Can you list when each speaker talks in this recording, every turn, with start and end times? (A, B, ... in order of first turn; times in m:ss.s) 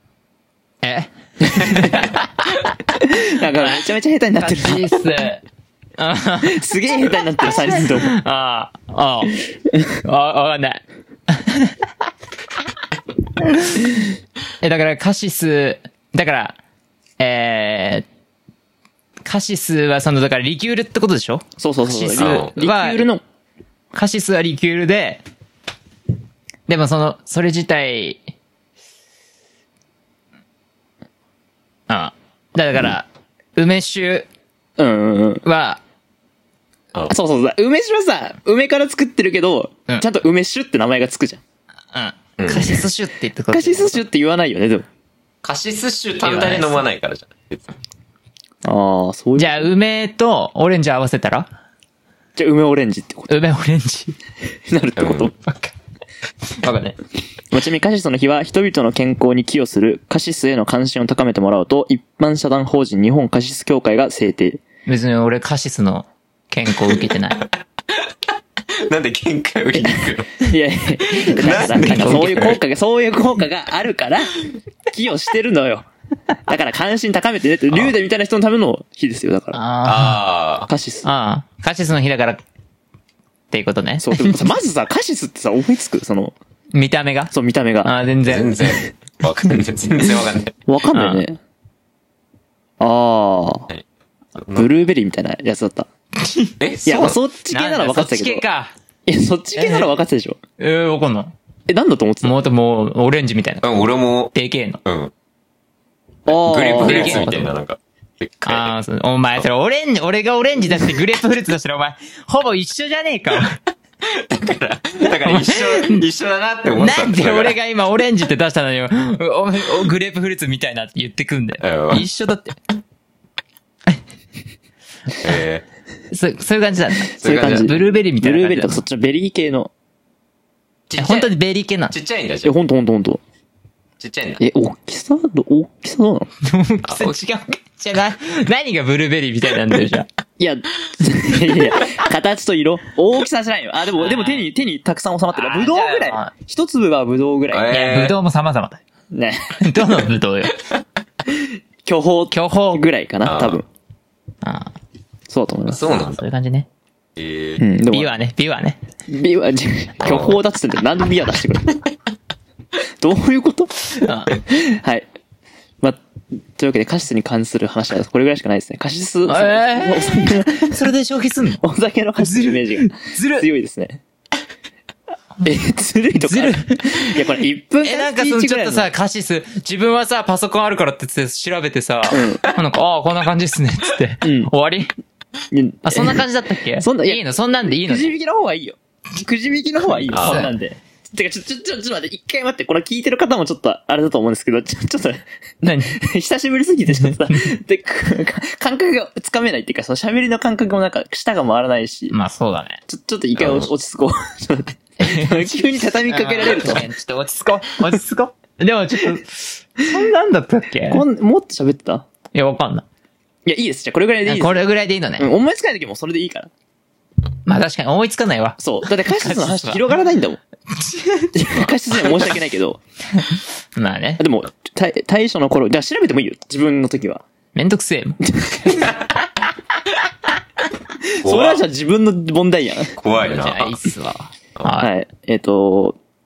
0:00.8-0:02.8 A
0:01.5-0:01.9 B
0:02.9-0:04.9 B
0:04.4-0:05.4 A
0:06.0-0:06.6 A
0:06.4-0:08.2 B
0:07.4-0:09.4 A
0:10.0-0:11.8 A
0:13.4-0:13.9 A
0:14.6-0:16.6 A
0:17.2-0:18.1 A
0:19.2-0:23.0 A
0:21.6-0:23.2 B
0:22.2-0:22.5 C
0:23.9-0:25.2 A
0:26.7-0:28.2 A
0:31.9-0:34.3 A
0:34.8-0:35.4 B
0:35.4-0:35.8 A
0:37.1-0:41.4 B
0:41.9-0:44.0 A
0:42.4-0:42.8 C
0:43.5-0:44.9 B
0:45.4-0:47.8 C
0:46.2-0:46.8 A
0:48.6-0:49.7 B
0:49.4-0:51.5 A
0:52.4-0:53.3 B
0:53.3-0:54.2 A
0:54.7-0:55.4 B
0:55.0-0:55.3 C
0:56.6-0:57.0 A
0:57.5-1:04.6 B
1:04.9-1:07.4 A
1:06.9-1:10.4 C
1:09.9-1:14.4 B
1:11.2-1:12.6 C
1:11.4-1:12.6 A
1:14.9-1:15.9 B
1:16.5-1:19.6 B
1:19.5-1:20.2 A
1:19.8-1:20.7 C
1:20.7-1:21.1 B
1:21.0-1:22.4 A
1:23.5-1:24.5 A
1:24.0-1:26.4 B
1:26.7-1:27.3 A
1:27.3-1:27.9 B
1:27.8-1:28.7 A
1:28.2-1:30.6 C
1:30.7-1:31.4 B
1:30.9-1:31.2 A
1:32.8-1:33.7 B
1:34.4-1:34.7 C
1:34.6-1:35.9 B
1:36.2-1:36.5 A
1:36.6-1:37.2 C
1:36.8-1:38.4 B
1:37.5-1:38.7 A
1:39.1-1:40.4 B
1:39.6-1:39.9 A
1:40.6-1:41.3 A
1:41.7-1:42.4 B
1:42.2-1:43.7 A
1:43.6-1:44.3 C
1:44.3-1:44.8 A
1:44.9-1:45.1 C
1:46.3-1:47.3 B
1:46.3-1:48.7 C
1:46.8-1:47.5 A
1:48.4-1:53.6 A
1:54.0-1:57.6 C
1:55.1-1:56.0 A
1:56.7-2:02.6 A
2:01.6-2:02.1 C
2:05.2-2:05.6 C
2:06.1-2:08.8 A
2:07.1-2:09.7 B
2:07.2-2:07.8 C
2:10.9-2:11.3 C
2:11.0-2:11.9 A
2:11.9-2:12.5 C
2:12.4-2:13.2 B
2:14.0-2:14.4 C
2:14.4-2:16.3 B
2:16.4-2:20.1 A
2:16.8-2:17.2 C
2:20.4-2:27.7 B
2:24.0-2:24.5 A
2:25.3-2:26.3 A
2:27.5-2:28.2 C
2:27.7-2:28.8 A
2:29.1-2:29.6 B
2:29.6-2:30.6 A
2:31.9-2:33.7 B
2:32.3-2:32.8 A
2:33.2-2:33.6 C
2:34.4-2:34.7 A
2:35.3-2:36.0 B
2:35.7-2:36.2 C
2:36.2-2:36.7 A
2:37.2-2:37.6 C
2:37.6-2:38.2 B
2:37.9-2:38.8 A
2:39.1-2:41.8 B
2:40.0-2:40.4 C
2:43.0-2:43.9 B
2:44.0-2:44.4 A
2:44.5-2:45.1 B
2:46.6-2:50.8 B
2:49.3-2:51.6 A
2:51.6-2:54.0 B
2:52.2-2:53.5 A
2:55.4-2:58.9 B
2:56.2-2:57.2 A
2:57.8-3:04.9 A
3:02.1-3:02.5 B
3:04.2-3:04.5 B
3:05.5-3:06.2 B
3:05.9-3:08.1 A
3:06.8-3:22.2 B
3:10.1-3:10.5 A
3:10.1-3:10.5 C
3:15.6-3:16.0 A
3:17.0-3:17.4 A
3:22.1-3:22.8 A
3:22.9-3:26.9 B
3:23.4-3:23.7 C
3:25.0-3:31.0 A
3:30.9-3:32.1 B
3:32.3-3:32.9 A
3:33.5-3:34.6 B
3:34.3-3:35.3 A
3:35.2-3:36.5 B
3:37.5-3:40.0 A
3:38.6-3:40.4 B
3:40.7-3:41.4 A
3:41.3-3:42.8 B
3:43.8-3:44.2 A
3:44.2-3:47.2 B
3:47.6-3:48.9 A
3:48.3-3:48.9 B
3:51.0-3:52.9 B
3:51.2-3:51.6 C
3:53.0-3:53.8 C
3:53.3-3:54.9 A
3:54.8-3:56.0 B